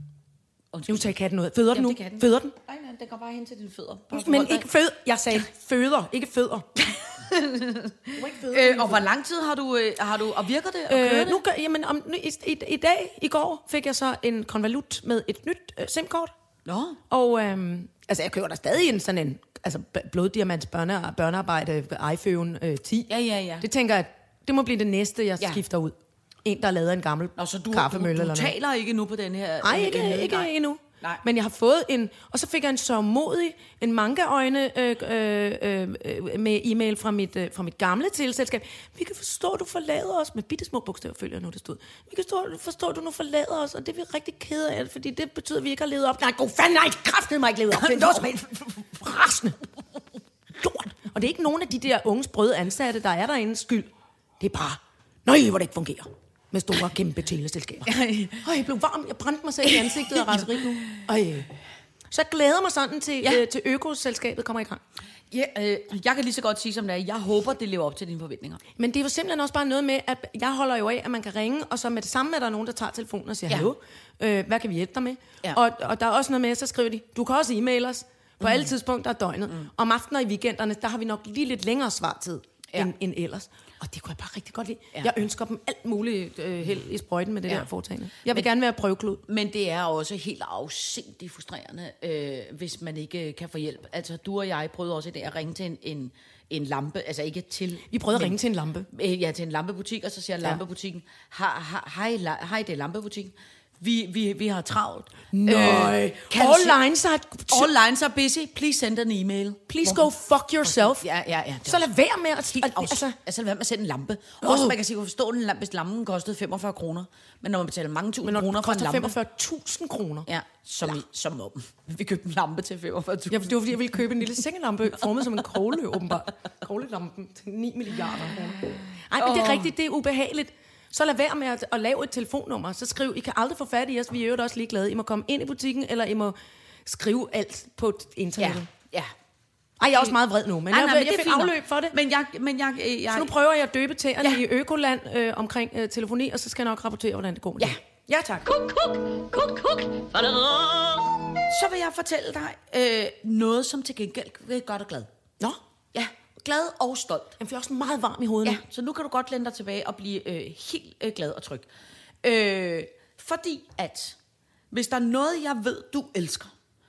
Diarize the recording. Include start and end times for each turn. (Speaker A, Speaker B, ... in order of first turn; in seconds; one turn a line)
Speaker A: 0.7-1.1
Speaker B: 0.9-2.5
Speaker A: 1.7-4.7
Speaker B: 4.1-6.7
Speaker A: 6.8-11.4
Speaker B: 8.2-9.0
Speaker B: 10.9-16.3
Speaker A: 16.6-17.0
Speaker B: 17.1-23.1
Speaker A: 23.1-23.7
Speaker B: 23.6-28.5
Speaker A: 27.4-30.5
Speaker B: 29.6-49.6
Speaker A: 47.8-48.4
Speaker B: 50.6-53.9
Speaker B: 54.4-57.9
Speaker A: 57.9-58.4
Speaker B: 58.4-61.5
Speaker A: 59.7-61.0
Speaker B: 62.1-64.8
Speaker A: 65.3-68.6
Speaker B: 68.8-89.2
Speaker A: 78.4-78.7
Speaker A: 89.3-98.4
Speaker B: 97.9-98.9
Speaker A: 98.9-106.8
Speaker B: 105.3-107.7
Speaker A: 107.5-110.1
Speaker B: 109.7-111.1
Speaker A: 110.7-111.9
Speaker B: 111.7-113.2
Speaker A: 112.5-119.2
Speaker B: 114.4-114.8
Speaker B: 118.2-120.3
Speaker A: 120.3-123.8
Speaker B: 123.3-138.7
Speaker A: 129.2-129.7
Speaker A: 138.4-139.1
Speaker B: 139.8-141.9
Speaker A: 140.7-143.3
Speaker B: 143.1-148.5
Speaker A: 148.4-155.1
Speaker A: 155.9-157.4
Speaker B: 157.4-158.6
Speaker A: 158.4-161.7
Speaker A: 162.2-164.2
Speaker A: 164.7-166.5